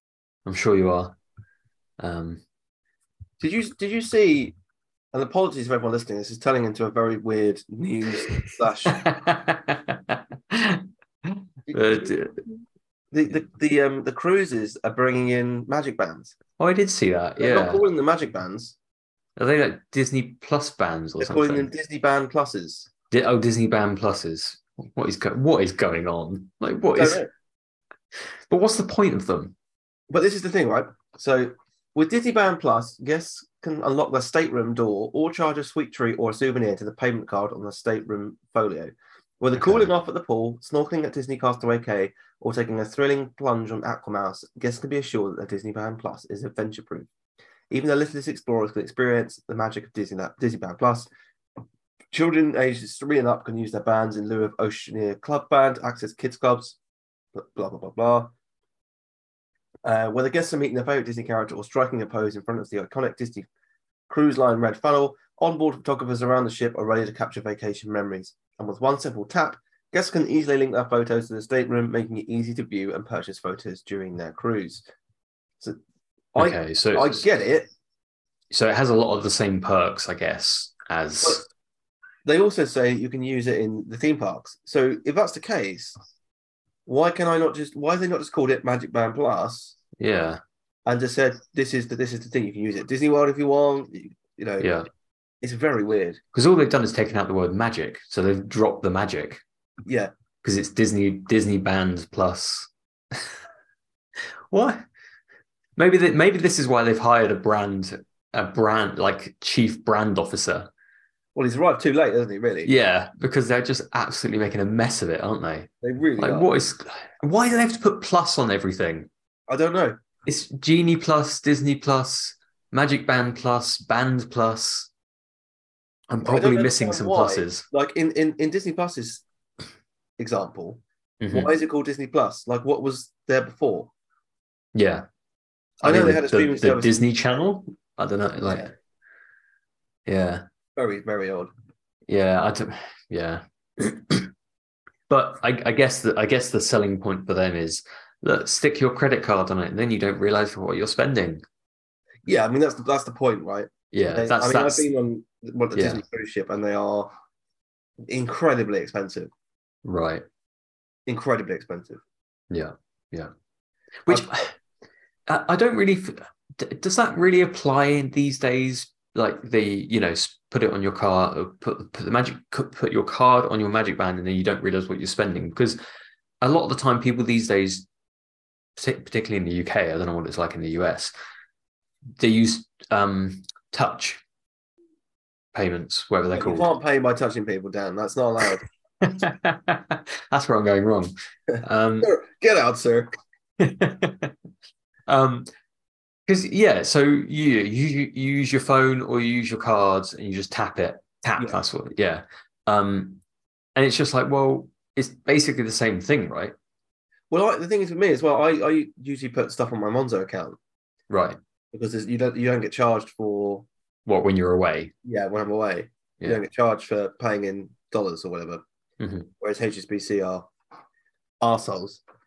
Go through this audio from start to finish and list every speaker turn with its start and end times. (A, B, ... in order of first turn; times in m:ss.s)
0:00.4-0:01.2 A
0:02.0-0:02.4 A
0:03.4-0:04.5 B
0:05.1-0:09.0 B
0:08.9-0:12.4 A
0:11.7-0:12.2 B
0:13.1-0:16.3 B
0:16.6-0:17.8 A
0:17.4-0:18.8 B
0:19.4-0:21.7 A
0:21.2-0:22.9 B
0:23.1-0:27.2 A
0:26.9-0:27.3 B
0:28.5-0:29.5 A
0:30.1-0:47.1 B
0:39.6-0:39.9 A
0:47.7-0:51.1 B
0:52.1-0:56.8 B
0:57.3-0:58.3 B
0:59.8-1:03.5 B
1:04.1-1:14.8 B
1:16.4-1:17.7 B
1:16.4-1:17.2 A
1:18.5-1:21.4 A
1:22.2-1:26.0 B
1:26.9-1:29.8 B
1:30.0-1:30.4 A
1:30.8-1:34.7 B
1:34.6-1:34.9 A
1:35.4-1:36.2 B
1:36.3-1:39.4 A
1:39.8-1:40.1 B
1:40.4-1:43.2 A
1:44.5-1:44.8 A
1:45.8-1:50.7 A
1:51.3-1:52.7 B
1:52.6-1:59.1 A
1:55.8-1:56.5 B
1:59.5-2:00.0 B
2:00.2-2:04.9 A
2:06.1-2:07.6 A
2:06.2-2:09.2 B
2:10.2-2:13.9 B
2:11.2-2:11.5 A
2:14.7-2:15.0 A
2:15.8-2:17.0 B
2:15.8-2:18.7 A
2:18.4-2:18.7 B
2:20.1-2:20.4 A
2:20.8-2:21.5 B
2:22.1-2:24.3 A
2:25.1-2:31.4 A
2:32.2-2:37.1 B
2:33.9-2:34.9 A
2:35.8-2:36.0 A
2:38.1-2:39.3 B
2:39.8-2:40.2 A
2:41.1-2:42.0 B
2:42.5-2:43.3 A
2:44.0-2:44.5 A
2:45.3-2:55.8 A
2:56.4-2:57.8 A
2:58.8-3:01.1 A
3:02.2-3:04.2 A
3:05.5-3:06.7 A
3:06.3-3:08.6 B
3:09.0-3:12.1 A
3:11.5-3:13.1 B
3:13.6-3:14.3 A
3:15.1-3:15.5 A
3:16.3-3:23.2 A
3:23.8-3:26.5 A
3:27.3-3:30.6 B
3:31.1-3:31.4 A
3:31.7-3:33.7 B
3:34.0-3:34.9 A
3:35.0-3:38.6 B
3:39.0-3:39.3 A
3:39.4-3:40.5 B
3:41.4-3:42.0 B